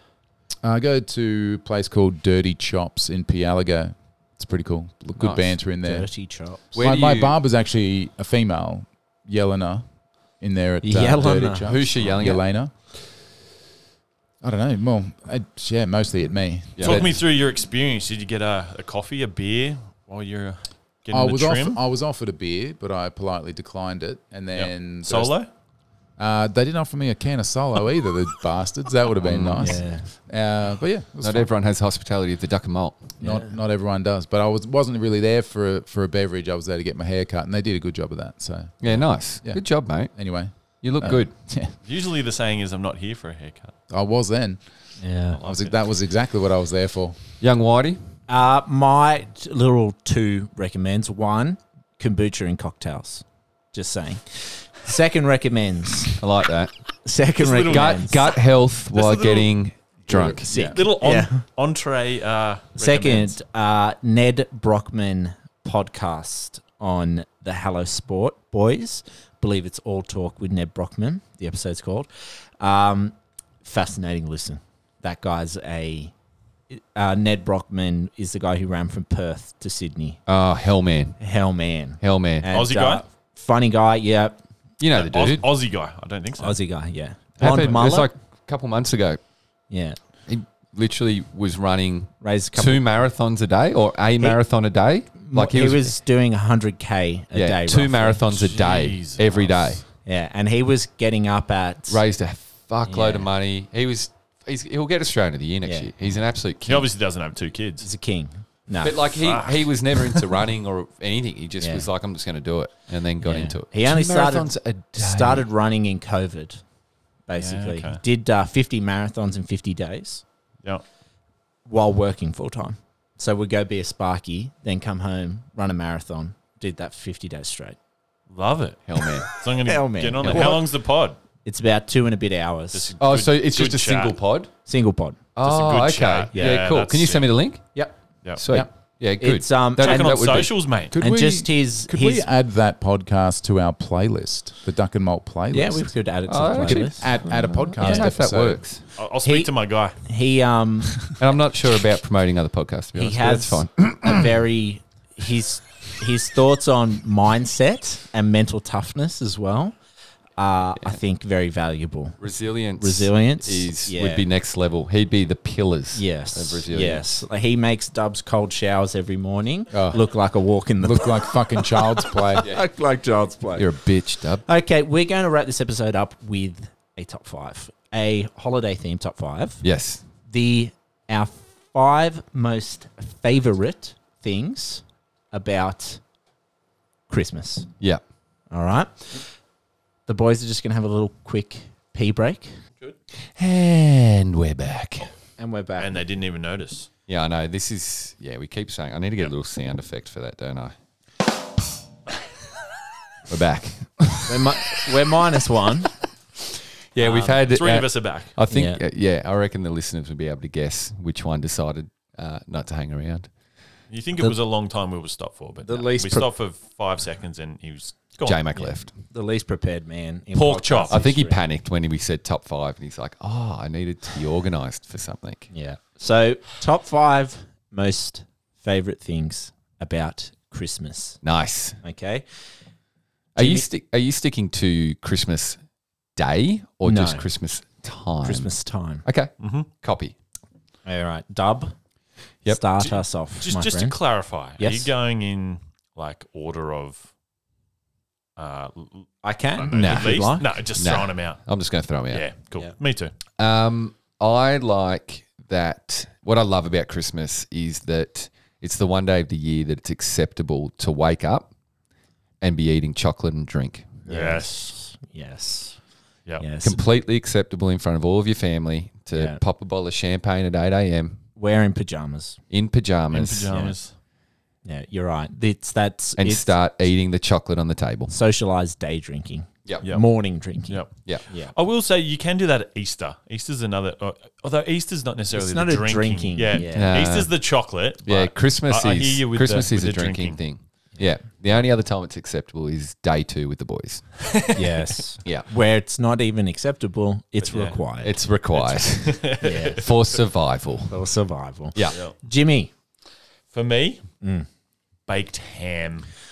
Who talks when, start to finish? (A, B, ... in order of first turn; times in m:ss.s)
0:00.6-0:06.1 A
0:05.6-0:06.8 B
0:06.7-0:12.7 A
0:06.7-0:07.4 C
0:10.8-0:11.7 B
0:11.6-0:12.4 C
0:14.4-0:17.2 A
0:16.8-0:17.1 C
0:16.8-0:21.8 D
0:21.1-0:25.4 A
0:24.6-0:25.5 D
0:26.2-0:31.5 A
0:29.2-0:29.8 C
0:29.6-0:30.1 B
0:31.2-0:33.2 C
0:33.2-0:33.5 B
0:33.2-0:41.7 A
0:38.8-0:41.3 C
0:41.8-0:43.7 D
0:43.9-0:47.2 A
0:45.0-0:45.4 B
0:45.3-0:45.8 D
0:47.4-0:48.0 C
0:48.3-0:56.2 B
0:56.2-0:56.7 C
0:57.0-0:58.2 B
0:57.4-0:58.2 D
0:57.7-1:00.5 C
0:58.9-0:59.5 D
1:00.1-1:03.4 D
1:00.2-1:01.4 B
1:00.5-1:00.8 A
1:02.8-1:16.1 B
1:16.7-1:20.2 B
1:20.3-1:21.2 C
1:21.2-1:24.4 B
1:22.0-1:22.5 C
1:22.5-1:23.0 D
1:24.8-1:25.4 C
1:24.9-1:26.6 D
1:26.4-1:28.1 B
1:27.4-1:29.2 C
1:29.7-1:30.0 B
1:30.3-1:36.0 C
1:32.2-1:32.8 B
1:35.2-1:38.2 B
1:37.3-1:39.8 C
1:38.3-1:39.8 D
1:40.0-1:42.0 B
1:41.9-1:46.9 C
1:42.9-1:43.3 B
1:45.6-1:45.9 B
1:46.7-1:47.9 D
1:47.8-1:49.1 B
1:48.8-1:55.4 C
1:49.2-1:50.2 D
1:51.6-1:51.9 B
1:53.2-1:56.6 B
1:57.3-2:00.2 B
1:57.4-1:58.0 D
2:01.6-2:07.8 B
2:08.3-2:11.2 D
2:08.9-2:09.4 C
2:09.5-2:10.7 B
2:10.2-2:10.6 C
2:11.4-2:12.9 B
2:12.7-2:14.2 D
2:13.0-2:14.5 C
2:14.7-2:15.2 B
2:15.4-2:17.8 C
2:15.4-2:17.3 D
2:16.3-2:16.7 B
2:18.3-2:20.6 C
2:19.2-2:22.3 B
2:19.8-2:21.0 D
2:20.9-2:26.0 A
2:25.5-2:27.1 B
2:26.3-2:28.9 C
2:26.8-2:28.6 A
2:27.8-2:28.1 B
2:29.0-2:30.0 D
2:29.2-2:31.1 B
2:31.2-2:34.3 C
2:33.0-2:39.8 B
2:40.4-2:44.3 B
2:42.2-2:47.2 C
2:45.9-2:53.8 B
2:49.7-2:50.0 A
2:50.8-2:52.5 A
2:53.6-2:54.4 C
2:54.4-2:59.6 B
2:59.6-3:00.0 C
3:00.3-3:06.0 B
3:07.1-3:07.7 B
3:08.5-3:09.3 B
3:10.1-3:12.6 B
3:13.4-3:15.1 C
3:15.4-3:16.0 B
3:15.8-3:16.9 D
3:17.1-3:20.7 C
3:23.3-3:24.9 C
3:24.3-3:25.9 B
3:26.9-3:33.3 C
3:27.0-3:28.3 D
3:28.5-3:28.8 B
3:33.9-3:38.4 D
3:35.6-3:36.3 B
3:38.2-3:38.9 C
3:38.6-3:41.4 B
3:40.3-3:41.0 D
3:40.9-3:45.5 C
3:45.5-3:51.2 B
3:51.2-3:51.8 C
3:51.8-3:52.3 B
3:53.4-3:55.6 C
3:53.4-3:53.7 B
3:56.2-3:58.5 C
3:56.8-3:57.3 B
3:58.2-3:59.0 B
3:59.0-4:00.1 C
3:59.4-3:59.7 D
4:00.8-4:01.7 B
4:02.4-4:04.0 B
4:02.8-4:07.1 D
4:04.6-4:04.9 B
4:08.4-4:11.4 D
4:09.2-4:10.6 B
4:09.7-4:12.3 C
4:12.1-4:13.1 D
4:13.4-4:21.5 C
4:22.4-4:24.0 C
4:24.1-4:25.8 B
4:24.1-4:24.6 D
4:26.4-4:26.8 B
4:26.6-4:31.2 C
4:29.1-4:29.4 B
4:31.4-4:32.4 B
4:32.5-4:33.5 C
4:33.1-4:33.9 D
4:33.4-4:33.8 B
4:34.6-4:36.5 B
4:36.2-4:38.1 C
4:38.1-4:41.5 B
4:40.7-4:50.4 D
4:45.3-4:47.0 B
4:46.7-4:47.3 C
4:48.0-4:54.1 C
4:54.2-4:54.8 D
4:54.5-4:58.2 B
4:57.4-4:57.8 D
4:58.0-5:01.0 C
4:58.5-5:00.0 D
4:59.4-4:59.9 B
5:00.9-5:02.7 B
5:03.5-5:04.0 D
5:04.2-5:04.5 B
5:05.1-5:06.1 D